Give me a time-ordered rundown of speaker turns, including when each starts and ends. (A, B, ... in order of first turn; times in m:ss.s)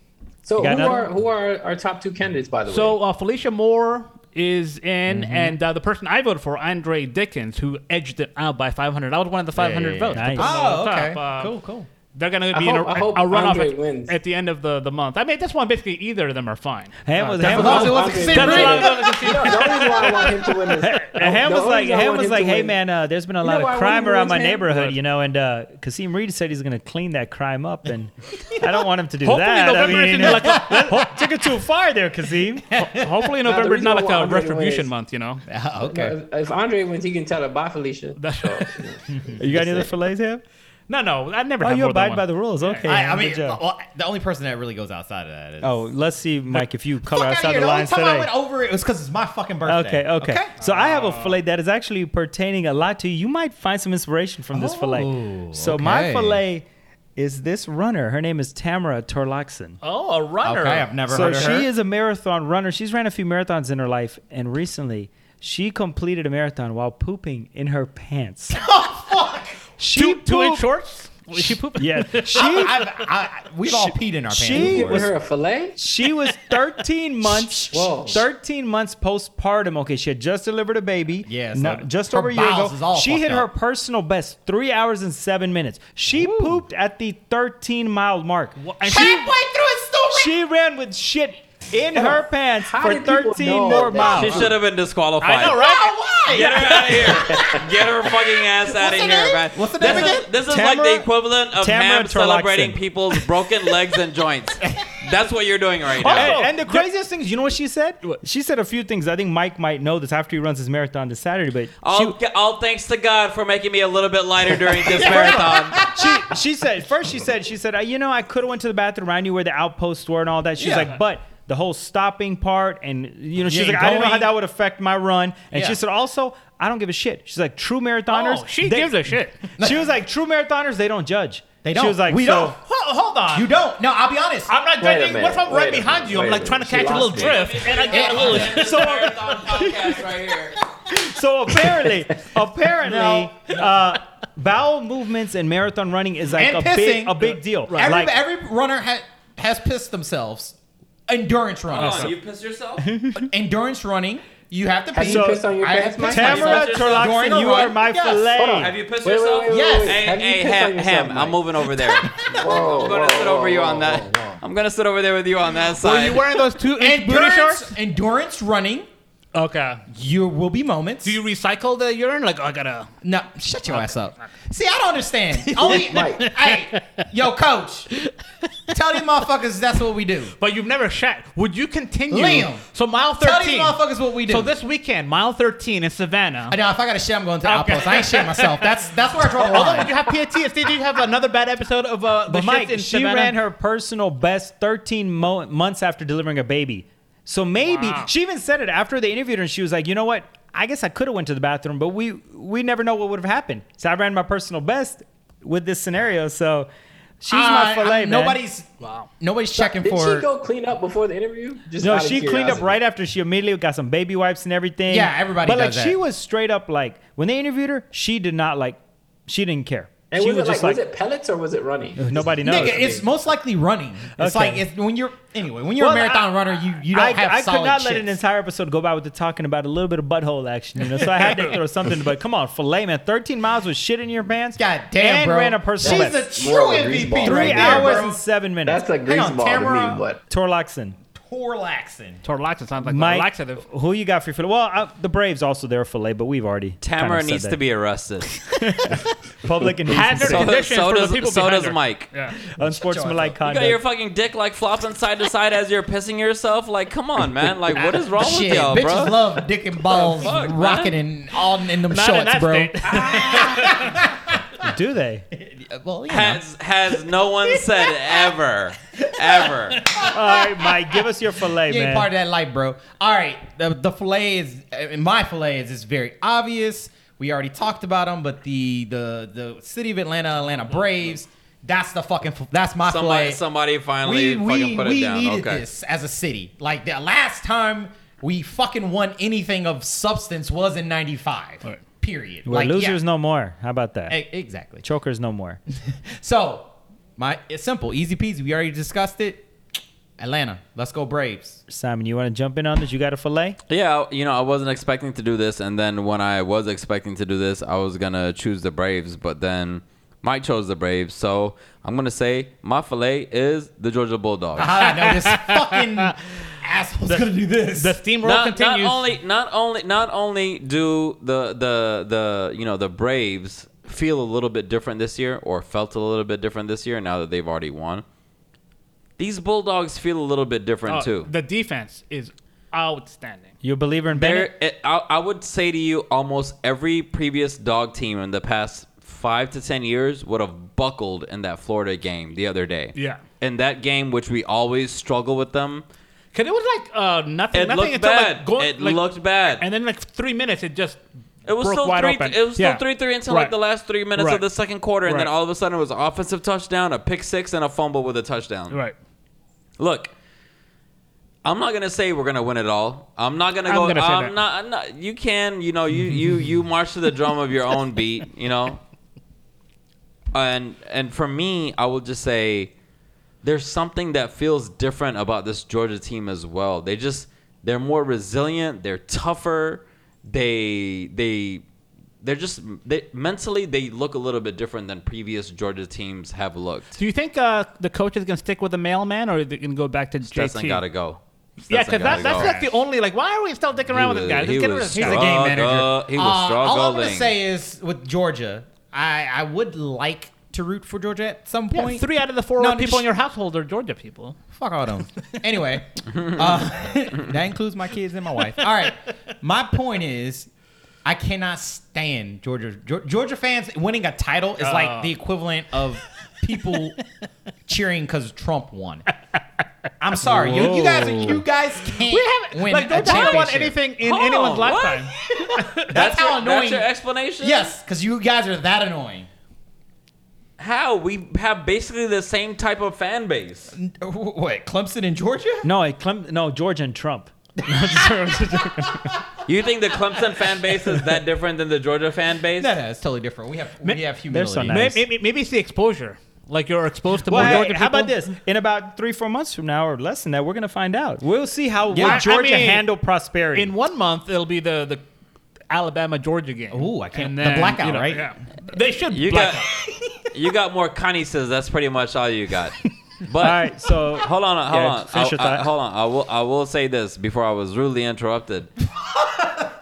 0:00.4-0:03.0 A
0:00.6-0:01.1 B
0:02.7-0:11.6 C
0:05.1-0:05.4 D
0:09.6-0:11.9 D
0:10.1-0:10.6 B
0:12.1-0:20.5 C
0:12.5-0:14.2 A
0:17.0-0:18.5 B
0:17.4-0:19.2 D
0:17.4-0:22.8 A
0:20.8-0:32.7 B
0:23.4-0:24.7 A
0:29.2-0:31.1 C
0:30.2-0:31.2 D
0:32.7-0:33.1 D
0:32.8-0:35.4 C
0:33.4-0:34.9 A
0:35.5-0:36.2 D
0:35.8-0:39.9 A
0:38.2-0:38.7 C
0:39.4-0:40.4 B
0:40.9-0:42.8 C
0:41.6-0:43.6 B
0:42.8-0:45.8 D
0:45.6-0:48.3 B
0:47.0-0:50.5 D
0:49.6-0:59.8 B
0:50.6-0:51.4 C
0:54.5-0:56.4 D
0:59.8-1:01.6 C
1:00.4-1:01.7 D
1:01.1-1:08.6 B
1:08.5-1:09.6 D
1:09.8-1:10.6 B
1:09.9-1:12.6 C
1:11.8-1:12.8 B
1:12.3-1:15.1 D
1:13.6-1:15.1 B
1:14.5-1:15.8 A
1:15.8-1:29.1 B
1:17.4-1:18.2 D
1:17.7-1:18.2 A
1:21.3-1:23.5 D
1:26.1-1:26.6 D
1:28.6-1:29.3 C
1:28.8-1:30.4 D
1:30.1-1:34.5 B
1:32.0-1:34.6 A
1:34.0-1:35.6 E
1:35.2-1:37.4 C
1:35.4-1:37.3 D
1:36.3-1:46.4 E
1:37.2-1:37.6 A
1:38.7-1:40.3 D
1:40.3-1:42.8 B
1:46.0-1:46.9 C
1:46.0-1:52.2 B
1:51.8-1:55.8 E
1:54.9-1:56.3 D
1:54.9-2:12.6 B
2:00.6-2:01.0 D
2:03.4-2:04.3 D
2:05.5-2:05.8 D
2:08.1-2:09.5 C
2:11.6-2:12.6 D
2:12.6-2:13.5 C
2:13.3-2:14.6 D
2:14.5-2:19.3 C
2:14.8-2:17.5 A
2:17.0-2:20.6 E
2:17.8-2:18.6 D
2:18.4-2:20.0 B
2:20.9-2:28.1 B
2:22.8-2:23.7 D
2:26.3-2:30.6 D
2:27.7-2:28.0 C
2:31.1-2:32.2 D
2:31.7-2:32.9 E
2:31.8-2:32.1 B
2:32.8-2:33.3 B
2:33.2-2:38.3 D
2:34.9-2:36.6 A
2:35.0-2:35.4 B
2:36.0-2:38.7 B
2:36.2-2:37.2 E
2:38.3-2:41.5 A
2:38.6-2:46.2 E
2:39.5-2:40.1 D
2:41.8-2:42.9 D
2:42.3-2:44.4 A
2:45.8-2:47.8 C
2:46.6-2:48.9 D
2:49.3-2:49.8 C
2:49.9-2:51.2 D
2:51.0-2:52.9 C
2:53.0-2:57.9 D
2:55.5-2:57.0 C
2:55.6-2:56.3 A
2:58.7-3:00.3 D
3:00.4-3:06.6 C
3:02.1-3:02.6 D
3:03.2-3:04.5 D
3:06.5-3:09.9 D
3:07.4-3:13.4 C
3:12.3-3:26.7 B
3:17.6-3:18.1 C
3:27.2-3:28.4 B
3:27.3-3:28.7 D
3:28.8-3:29.1 C
3:29.2-3:30.3 D
3:29.6-3:32.7 A
3:31.8-3:40.8 B
3:34.9-3:36.0 D
3:40.1-3:43.1 A
3:42.0-3:43.0 B
3:42.4-3:48.1 D
3:44.2-3:44.6 B
3:45.8-3:46.3 B
3:46.9-3:56.2 B
3:51.2-3:51.5 C
3:54.6-3:58.1 D
3:55.8-4:00.2 A
3:57.2-3:58.8 B
3:59.0-4:00.0 D
4:00.3-4:01.0 B
4:01.1-4:02.2 D
4:02.2-4:03.6 C
4:02.8-4:07.6 B
4:06.8-4:08.3 E
4:08.6-4:10.5 B
4:09.9-4:12.4 C
4:10.2-4:12.1 E
4:12.4-4:13.8 B
4:12.7-4:13.3 D
4:13.4-4:19.3 E
4:18.1-4:24.6 D
4:19.9-4:21.0 E
4:19.9-4:20.3 C
4:21.8-4:24.0 C
4:22.9-4:23.7 A
4:24.6-4:25.2 B
4:25.3-4:26.4 D
4:26.1-4:29.8 E
4:29.4-4:31.0 D
4:30.0-4:32.1 B
4:31.6-4:43.4 D
4:40.8-4:41.0 C
4:42.9-4:45.6 E
4:44.0-4:53.0 D
4:52.4-4:54.2 B
4:54.1-4:54.8 D
4:54.8-4:55.6 B
4:56.1-4:59.4 D
5:00.2-5:01.6 D
5:01.7-5:03.6 B
5:03.7-5:15.1 E
5:14.6-5:18.0 D
5:14.8-5:16.1 C
5:17.1-5:19.1 C
5:18.2-5:28.0 E
5:29.2-5:31.3 E
5:30.9-5:33.5 C
5:33.6-5:34.5 B
5:34.1-5:45.8 E
5:43.0-5:43.2 C
5:46.3-5:51.0 C
5:47.5-5:49.6 E
5:51.4-5:58.8 E
5:51.6-5:53.6 C
5:54.2-5:54.4 C
5:55.0-5:55.3 C
5:59.8-6:00.1 E
6:01.4-6:08.8 E
6:03.6-6:04.4 C
6:10.3-6:12.7 E
6:13.4-6:21.6 E
6:22.2-6:27.0 E
6:27.0-6:30.8 C
6:30.3-6:32.6 E
6:31.7-6:35.2 C
6:32.0-6:32.7 D
6:33.9-6:37.4 E
6:34.9-6:43.1 D
6:41.7-6:44.4 C
6:44.5-6:50.5 D
6:51.0-6:57.0 D
6:54.6-6:55.1 C
6:57.6-6:59.0 D
7:00.0-7:03.8 D
7:00.3-7:01.4 B
7:02.1-7:06.0 C
7:04.0-7:05.1 E
7:05.2-7:06.9 D
7:05.9-7:07.8 E
7:07.4-7:09.3 D
7:10.6-7:13.7 E
7:13.7-7:15.7 D
7:15.6-7:19.2 B
7:17.6-7:18.1 D
7:18.8-7:19.2 D
7:19.4-7:22.7 E
7:20.1-7:20.9 D
7:22.6-7:25.0 D
7:24.3-7:25.0 B
7:24.6-7:28.2 C
7:27.3-7:33.7 B
7:27.3-7:27.6 D
7:31.9-7:32.3 D
7:32.0-7:32.9 C
7:33.6-7:35.0 C
7:35.7-7:39.7 C
7:36.7-7:38.3 D
7:39.1-7:39.6 E
7:40.3-7:48.7 E
7:43.4-7:45.7 B
7:49.3-7:49.7 D